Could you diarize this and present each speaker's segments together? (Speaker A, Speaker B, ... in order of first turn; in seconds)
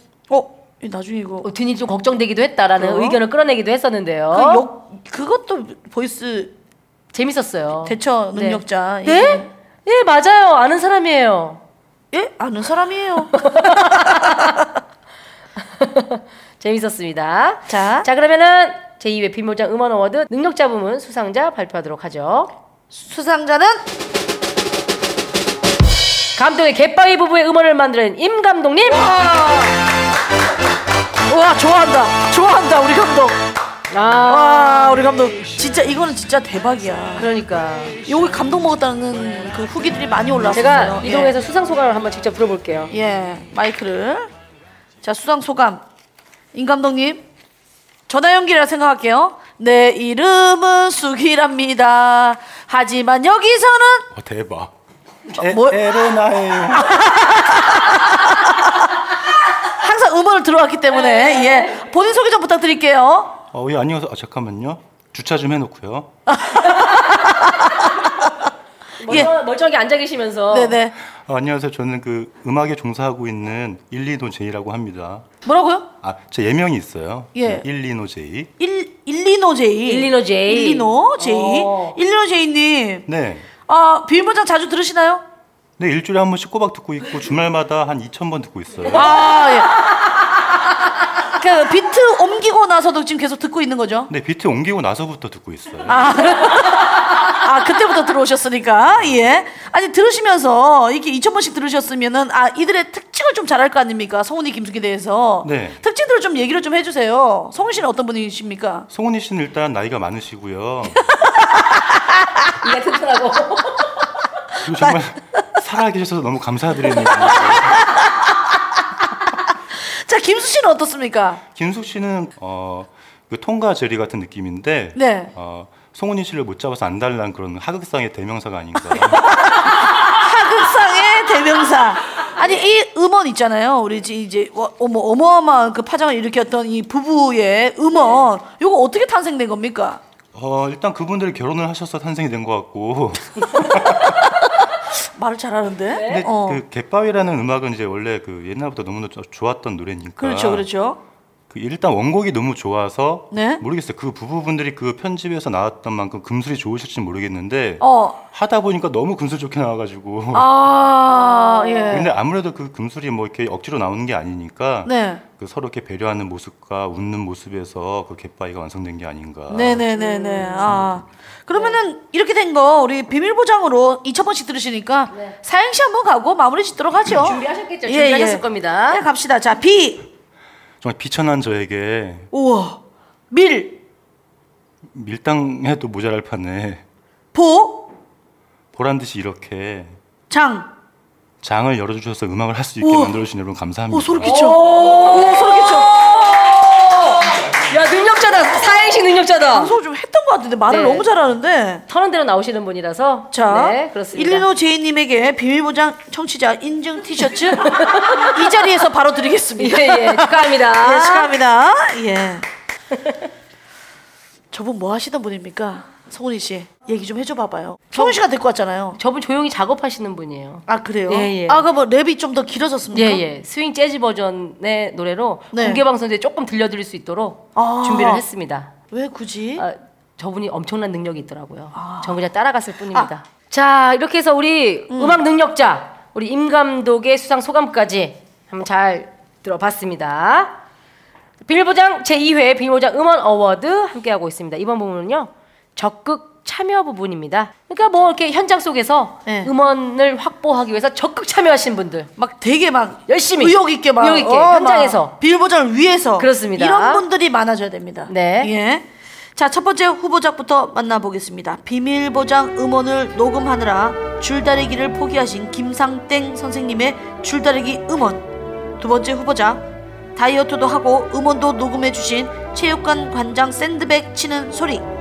Speaker A: 0.3-1.5, 2.8-3.2, 4.3-6.5, 7.8-9.5, 12.1-14.6, 17.7-18.1, 22.9-23.8, 28.9-29.7, 31.3-33.5, 34.2-37.3, 38.1-41.4, 42.9-44.3, 45.0-45.8, 46.5-47.2, 48.1-54.1, 55.4-55.9, 56.7-58.4, 59.8-63.4, 66.3-67.2, 70.5-70.9, 75.4-75.9, 77.3-77.7, 78.6-83.1, 83.6-85.2, 88.9-89.8, 91.4-94.1, 95.9-108.9, 110.9-111.8, 114.8-115.1, 116.8-118.1, 119.8-121.4, 124.9-125.3, 129.5-140.0, 145.2-146.6, 150.2-151.0, 153.3-153.6, 157.8-158.2, 160.3-162.1, 164.8-165.2, 169.5-180.1, 182.3-183.8, 187.3-187.9, 190.3-190.7, 192.8-193.2, 193.9-195.9, 199.5-201.8, 203.3-212.4, 214.5-219.0, 220.7-223.2, 225.5-225.8, 227.6-228.2, 228.9-229.6, 231.7-232.2, 234.9-235.2, 249.3-249.5, 252.2-268.3, 268.8-274.9
Speaker B: 1.4-4.6, 7.1-11.6, 13.4-14.5, 15.6-22.5, 26.4-29.0, 33.9-35.0, 37.2-38.0, 40.5-42.9, 60.9-61.9, 69.0-70.8, 79.9-82.0, 88.9-89.4, 112.6-113.9, 137.9-138.2, 145.9-146.3, 161.1-162.0, 169.9-170.7, 171.5-171.8, 175.1-175.4, 177.2-179.1, 194.2-199.7, 200.7-201.1, 201.9-204.4, 207.6-208.3, 209.6-211.3, 219.0-221.6, 222.9-228.7, 229.6-240.6, 241.4-252.1, 253.1-255.1, 256.2-257.0, 258.1-258.5
Speaker C: 54.1-54.7, 55.4-56.7, 63.5-66.1, 71.3-75.2, 76.0-78.5, 83.1-83.5, 85.8-89.0, 94.1-96.0, 105.4-105.8, 108.9-110.9, 114.7-115.1, 115.6-117.6, 121.5-129.2, 140.3-143.2, 146.1-150.7, 151.5-160.5, 161.9-169.8, 180.8-182.3, 184.9-186.8, 188.7-190.0, 191.4-194.4